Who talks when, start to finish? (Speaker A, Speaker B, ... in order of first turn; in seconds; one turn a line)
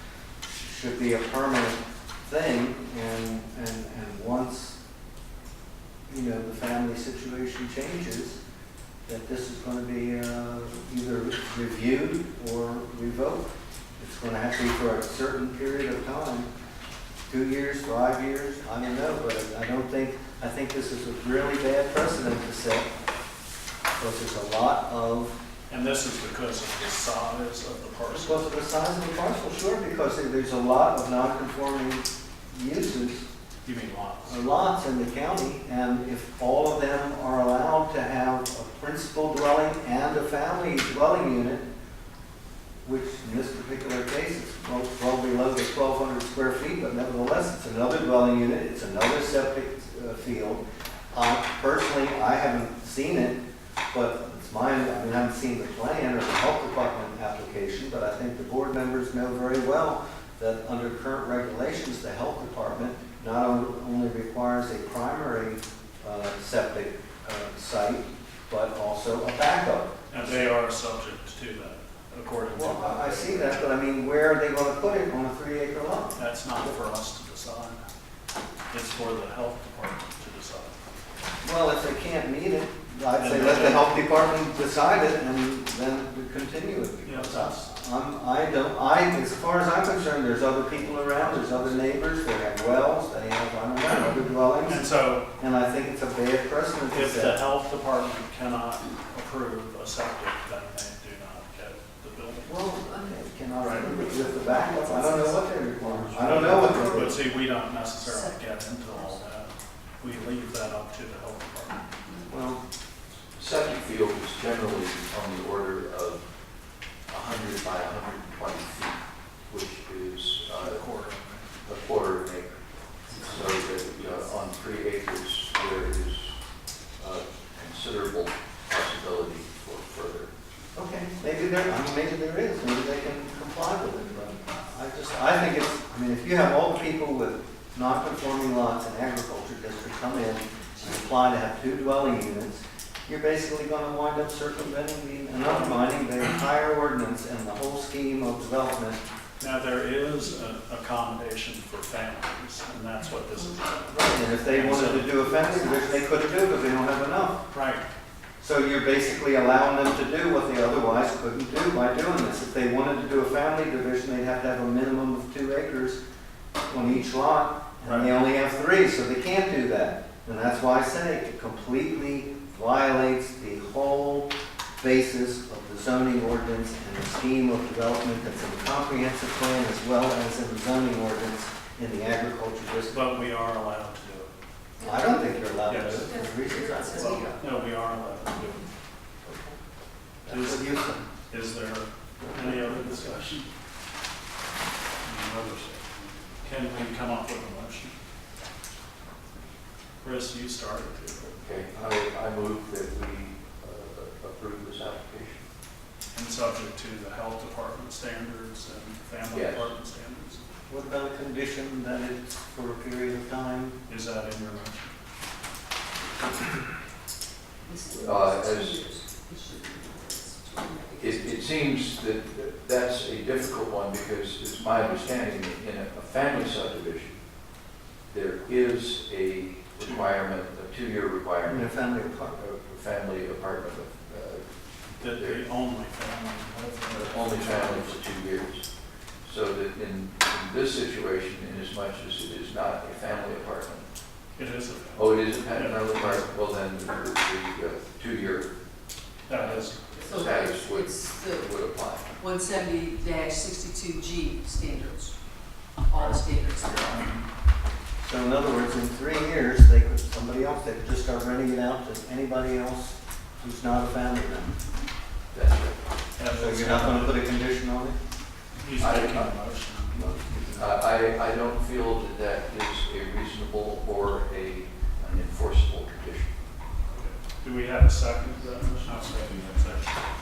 Speaker A: 0.5-4.8
Speaker A: 6.1-8.4
Speaker A: 9.1-16.5
Speaker A: 17.3-22.9
Speaker A: 24.0-25.4
Speaker B: 25.7-28.5
Speaker A: 28.1-33.2
Speaker B: 33.6-34.4
Speaker A: 34.3-41.7
Speaker A: 42.8-69.9
Speaker B: 70.1-73.7
Speaker A: 72.5-76.7
Speaker B: 76.2-77.8
Speaker B: 78.7-80.8
Speaker A: 81.4-97.4
Speaker B: 83.1-84.2
Speaker B: 87.0-87.7
Speaker B: 90.8-91.8
Speaker B: 94.6-95.3
Speaker B: 96.9-102.6
Speaker A: 102.4-107.2
Speaker B: 103.6-104.1
Speaker C: 103.9-104.3
Speaker B: 104.6-111.8
Speaker C: 108.0-108.3
Speaker C: 108.9-109.2
Speaker A: 112.3-112.6
Speaker D: 113.4-116.2
Speaker D: 117.1-120.8
Speaker B: 120.6-121.5
Speaker D: 121.7-126.4
Speaker D: 127.0-130.3
Speaker A: 130.8-149.0
Speaker B: 145.4-145.8
Speaker B: 149.4-155.3
Speaker C: 153.3-153.6
Speaker A: 153.9-157.4
Speaker C: 155.3-155.9
Speaker B: 157.5-157.9
Speaker A: 158.4-166.0
Speaker A: 166.7-183.0
Speaker B: 167.8-168.1
Speaker B: 182.9-184.3
Speaker C: 184.8-185.4
Speaker A: 184.8-187.4
Speaker B: 185.7-186.2
Speaker C: 185.9-187.4
Speaker B: 186.9-188.7
Speaker A: 189.2-189.6
Speaker A: 190.2-191.1
Speaker B: 190.3-193.5
Speaker A: 192.2-192.7
Speaker B: 195.0-197.9
Speaker B: 200.0-201.4
Speaker D: 201.4-205.5
Speaker B: 206.1-210.4
Speaker D: 209.3-209.7
Speaker A: 210.7-213.8
Speaker B: 213.9-214.9
Speaker C: 217.6-221.5
Speaker D: 217.9-218.8
Speaker D: 221.0-227.2
Speaker D: 228.1-234.5
Speaker B: 229.8-230.1
Speaker A: 231.4-232.4
Speaker B: 234.9-238.0
Speaker D: 235.0-235.4
Speaker D: 236.9-238.7
Speaker D: 239.2-243.9
Speaker B: 244.4-246.3
Speaker D: 244.9-248.5
Speaker B: 249.3-250.0
Speaker D: 249.3-252.1
Speaker C: 250.0-251.6
Speaker C: 252.2-255.2
Speaker C: 255.8-257.1
Speaker B: 256.0-257.2
Speaker A: 258.0-264.6
Speaker D: 265.3-265.8
Speaker B: 266.2-267.3
Speaker A: 266.3-268.0
Speaker B: 268.6-270.2
Speaker D: 268.8-269.4
Speaker A: 269.9-270.8
Speaker D: 270.6-276.3
Speaker B: 276.9-280.0